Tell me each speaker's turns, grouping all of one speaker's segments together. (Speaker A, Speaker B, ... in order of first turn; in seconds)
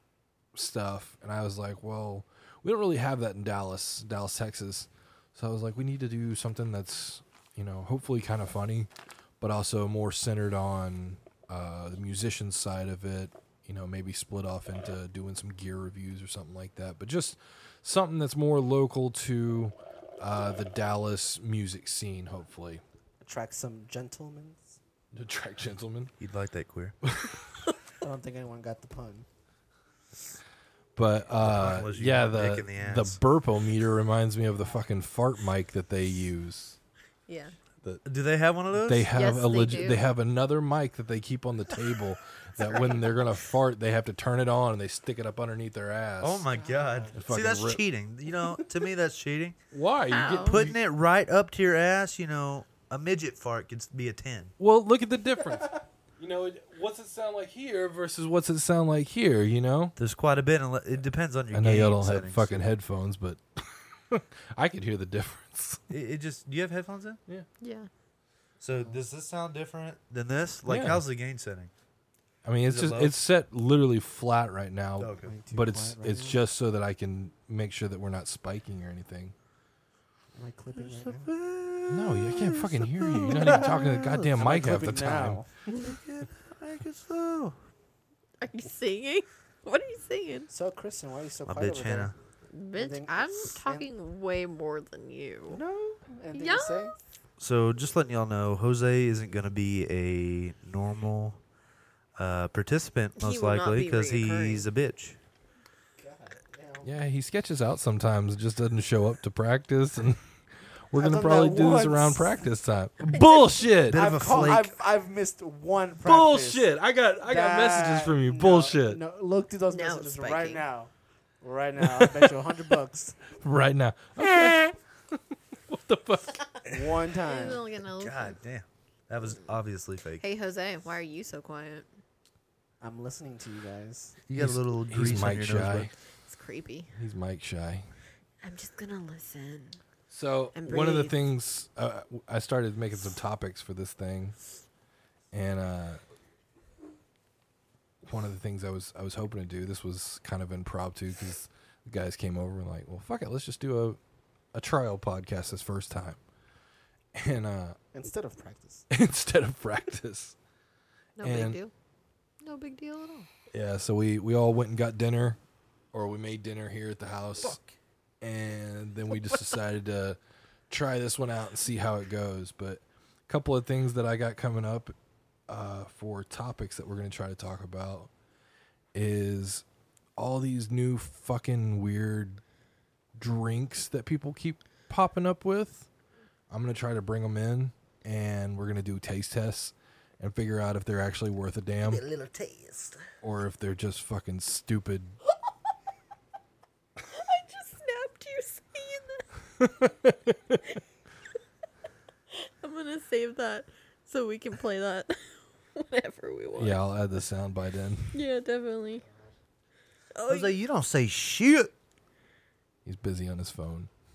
Speaker A: 0.5-22.8, 25.1-26.1, 27.0-27.4, 30.9-36.8, 38.7-46.5, 47.1-47.8, 49.7-50.8, 54.6-59.9, 61.5-65.8, 70.7-71.0, 72.4-79.3, 81.9-85.4, 106.8-110.3, 110.9-114.1, 116.0-119.0, 121.8-122.3, 123.3-126.4, 134.4-135.9, 136.9-137.9, 140.1-144.4, 145.3-146.0, 148.0-154.0, 154.5-156.2, 157.1-157.8, 158.9-160.3, 161.2-161.6, 163.5-165.4, 165.9-167.6, 168.2-170.2, 170.7-174.9, 175.5-178.1, 178.9-179.7, 180.2-182.4, 183.2-185.9, 186.5-192.1, 193.2-195.2, 199.6-200.6, 206.6-208.2, 212.8-213.9
Speaker B: 23.2-24.8, 28.0-29.3, 46.5-47.1, 75.3-76.4, 80.3-81.3, 83.3-85.5, 90.5-92.1, 92.7-93.9, 95.5-97.0, 106.0-106.9, 110.9-112.3, 113.9-116.7, 117.2-123.2, 126.7-127.6, 132.8-134.2, 157.9-158.9
Speaker C: 26.2-27.0, 31.4-33.2, 38.0-39.1, 46.2-49.6, 50.4-54.5, 60.0-62.7, 65.9-67.2, 68.6-71.7, 72.7-73.2, 75.0-75.3, 81.2-84.3, 85.8-87.6, 91.5-92.2, 97.4-101.4, 102.2-105.2, 113.9-114.8, 128.0-130.2, 134.3-135.9, 167.4-167.7, 191.8-192.9, 210.3-211.7
Speaker D: 37.3-37.5, 39.1-40.0, 50.1-50.6, 67.6-67.9, 88.4-90.5, 92.5-95.6, 96.3-97.0, 103.2-104.7, 119.7-120.6, 127.2-128.4, 130.2-131.9, 136.3-136.9, 138.4-139.8, 140.6-141.2, 161.2-161.7, 162.4-163.3, 197.0-199.2, 202.3-206.8, 208.1-209.1, 210.1-210.6